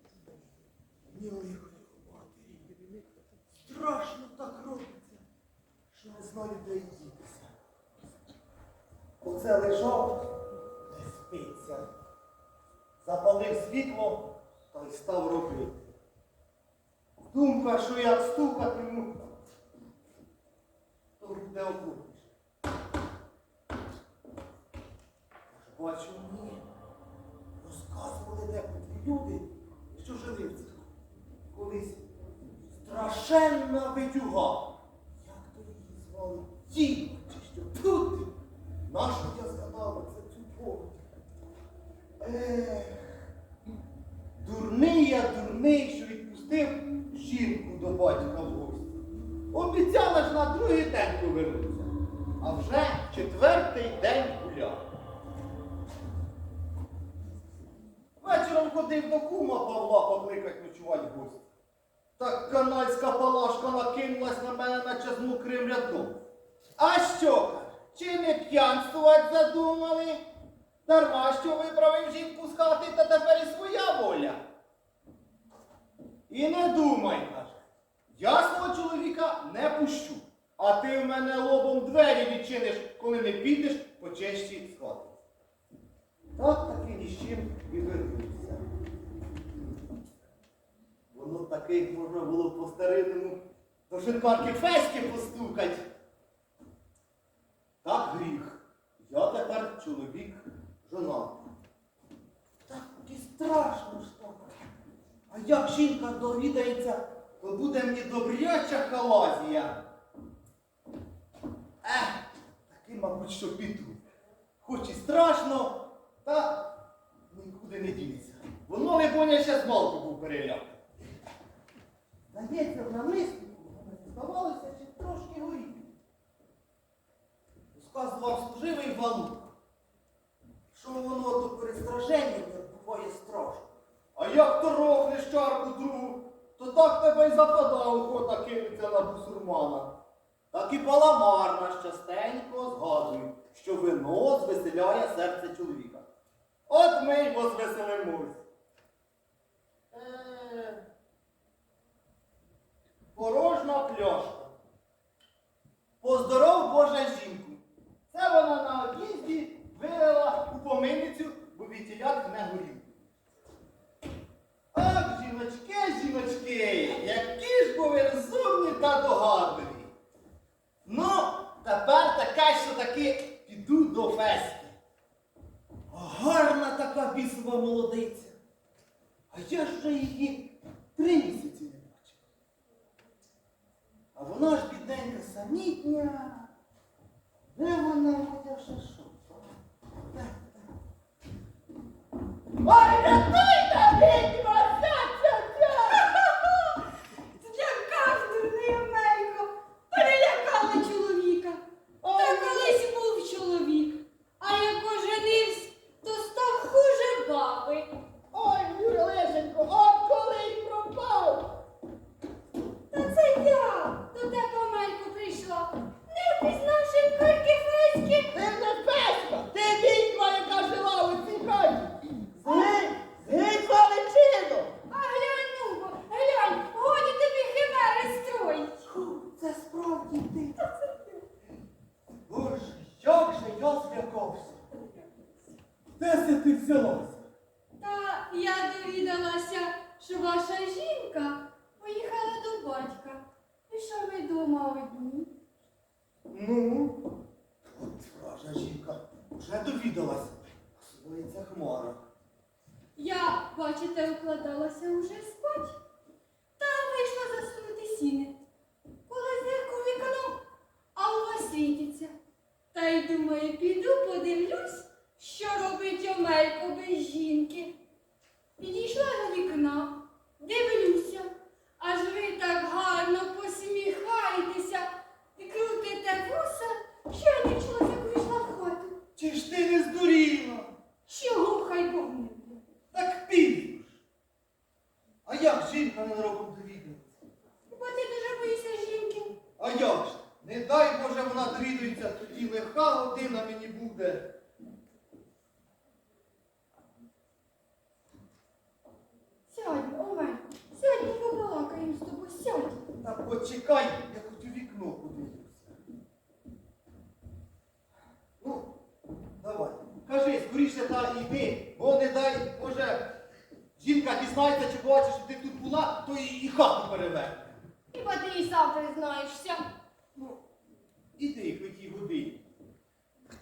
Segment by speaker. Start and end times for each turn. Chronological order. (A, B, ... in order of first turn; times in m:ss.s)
0:01.1-0:02.4 A
0:03.6-0:05.2 A
0:05.9-0:07.5 A
0:09.2-0:10.3 A
0:10.9-0:11.9 A
0:13.0-0:15.8 A
0:17.3-0:19.2 A
0:21.2-0:22.3 A
0:25.5-0:26.6 A
0:27.6-0:30.8 A
0:31.5-0:32.0 A
0:32.7-0:38.3 A
0:38.9-0:41.0 A
0:42.2-0:43.1 A
0:44.4-0:49.0 A
0:49.5-0:54.8 A
0:58.2-1:01.4 A
1:02.2-1:06.2 A
1:06.8-1:10.2 A
1:10.8-1:14.4 A
1:16.3-1:17.6 A
1:18.1-1:25.2 A
1:26.4-1:28.6 A
1:31.1-1:35.9 A
1:37.8-1:41.5 A
1:42.7-1:44.5 A
1:45.3-1:49.8 A
1:51.8-1:54.0 A
1:54.6-1:56.8 A
1:57.3-2:00.8 A
2:02.3-2:05.9 A
2:07.7-2:09.5 A
2:10.7-2:19.9 A
2:20.5-2:26.0 A
2:26.7-2:28.4 A
2:29.9-2:30.8 A
2:33.1-2:34.5 A
2:36.0-2:42.9 A
2:44.7-2:49.9 A
2:50.8-2:54.7 A
2:55.9-2:58.4 A
2:59.3-3:02.2 A
3:04.1-3:06.5 A
3:07.5-3:09.6 A
3:10.1-3:10.6 A
3:12.6-3:16.1 A
3:15.9-3:16.8 B
3:17.4-3:21.6 B
3:22.0-3:22.8 A
3:22.1-3:27.9 B
3:28.3-3:31.5 A
3:32.9-3:38.3 B
3:38.3-3:44.7 A
3:42.4-3:42.7 B
3:44.9-3:48.8 B
3:48.9-3:50.5 A
3:50.6-3:51.2 B
3:52.3-3:54.6 A
3:56.0-3:57.3 A
3:57.8-4:05.3 B
4:06.3-4:07.0 A
4:07.8-4:12.0 A
4:13.0-4:15.8 B
4:16.6-4:18.4 B
4:19.1-4:20.4 B
4:20.9-4:22.1 B
4:22.7-4:27.7 B
4:28.6-4:39.0 B
4:39.2-4:40.7 A
4:41.1-4:42.6 B
4:42.9-4:43.9 A
4:45.2-4:47.1 A
4:47.7-4:49.4 B
4:49.6-4:54.3 A
4:59.5-5:02.8 B
5:03.0-5:05.7 A
5:08.4-5:08.7 A
5:09.4-5:13.0 A
5:13.8-5:17.4 A
5:17.9-5:19.6 B
5:21.2-5:22.4 A